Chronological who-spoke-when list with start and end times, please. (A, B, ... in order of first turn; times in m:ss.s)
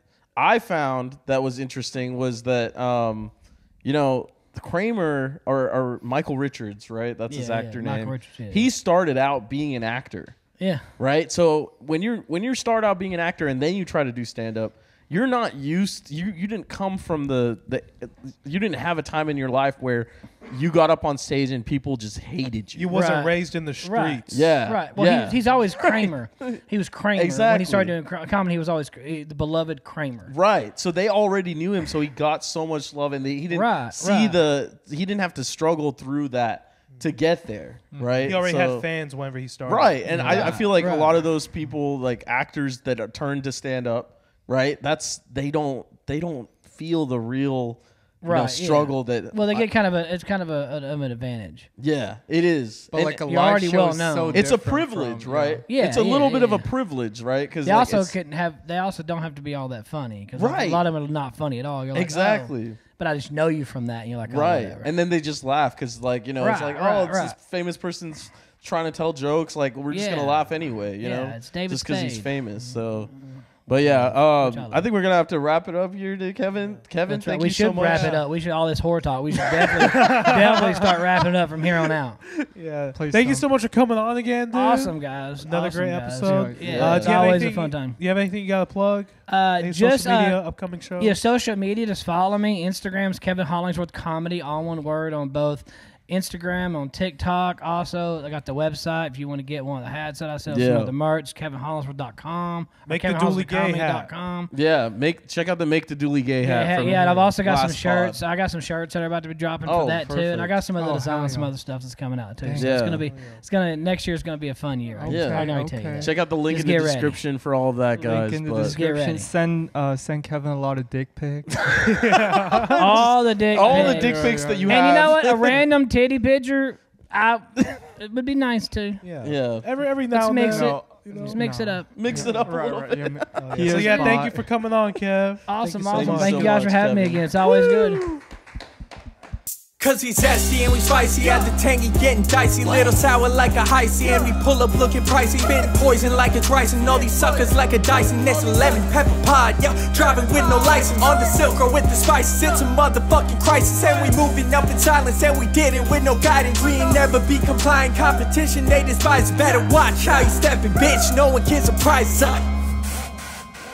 0:00.4-0:10.4 A
0:07.3-0:08.6 B
0:10.6-0:10.9 B
0:11.0-0:22.9 A
0:22.7-0:24.4 C
0:22.9-0:30.3 B
0:24.3-0:26.6 A
0:27.1-0:27.9 A
0:30.3-0:38.9 A
0:33.5-0:34.4 B
0:37.9-0:38.4 D
0:38.2-0:40.6 C
0:39.6-0:49.7 A
0:40.1-0:41.2 B
0:48.2-0:51.7 B
0:51.8-0:53.2 A
0:52.9-0:55.6 D
0:53.2-0:54.4 B
0:54.3-0:58.2 A
0:55.7-0:56.7 B
0:57.6-1:04.9 B
1:00.4-1:00.8 A
1:01.9-1:02.8 A
1:04.3-1:13.1 A
1:06.4-1:07.4 B
1:09.9-1:10.5 B
1:11.0-1:12.3 B
1:13.2-1:14.8 B
1:13.7-1:18.2 A
1:16.6-1:16.8 C
1:17.1-1:22.2 B
1:17.8-1:18.2 C
1:19.5-1:21.0 C
1:22.4-1:31.2 C
1:22.9-1:23.5 D
1:24.5-1:28.0 B
1:26.2-1:27.0 D
1:26.7-1:27.5 A
1:29.3-1:30.4 B
1:31.0-1:44.5 B
1:40.5-1:40.9 A
1:42.9-1:44.1 C
1:44.5-1:48.2 A
1:46.4-1:57.2 B
1:49.6-1:50.6 A
1:50.8-1:51.5 D
1:52.4-1:53.0 D
1:52.6-1:53.0 A
1:53.0-1:53.4 C
1:55.0-1:56.1 D
1:55.1-1:58.7 A
1:57.9-2:01.7 D
1:58.6-1:59.3 B
2:01.6-2:05.6 A
2:01.9-2:03.1 C
2:02.8-2:09.0 B
2:03.6-2:05.1 D
2:09.0-2:11.4 C
2:09.2-2:09.7 A
2:10.1-2:11.9 B
2:10.4-2:14.5 D
2:11.9-2:13.9 A
2:12.1-2:12.6 C
2:13.4-2:16.5 C
2:13.8-2:14.2 B
2:15.5-2:18.1 B
2:15.6-2:16.4 D
2:15.9-2:18.2 A
2:19.8-2:42.4 E